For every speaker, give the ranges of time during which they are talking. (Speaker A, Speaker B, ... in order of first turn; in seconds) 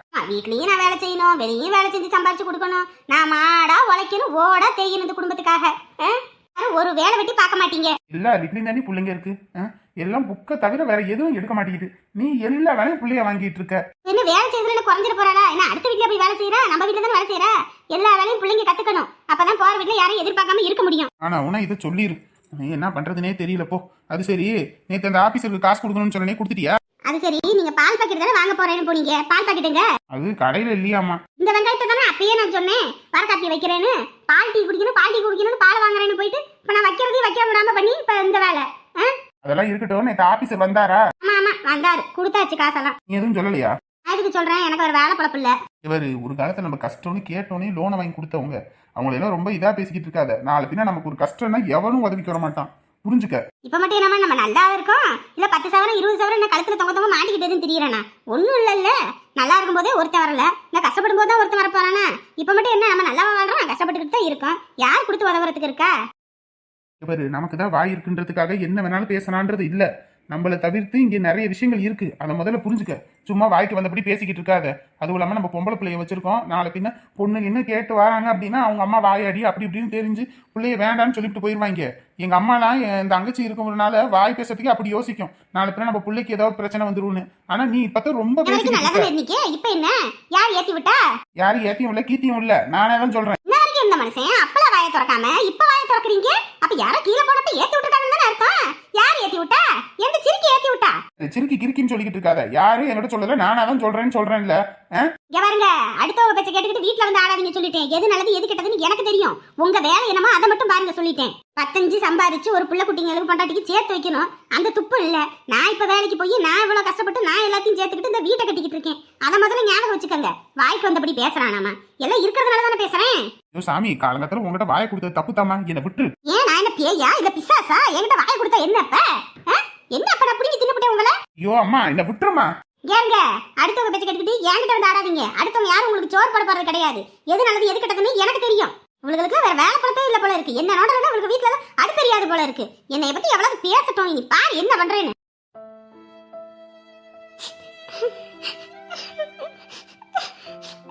Speaker A: 0.2-7.9, 14.1-21.1, 27.1-29.9, 31.4-39.1, 41.2-43.0, 44.1-45.5, 53.6-65.9, 88.5-91.0, 93.5-101.0, 105.3-123.2, 126.3-131.1, 132.9-145.1
Speaker B: 8.1-13.8, 21.2-26.8, 30.1-31.2, 39.4-41.0, 43.1-43.7, 45.9-53.4, 67.0-89.1, 91.4-93.4, 101.2-105.1, 123.5-126.1, 131.4-132.5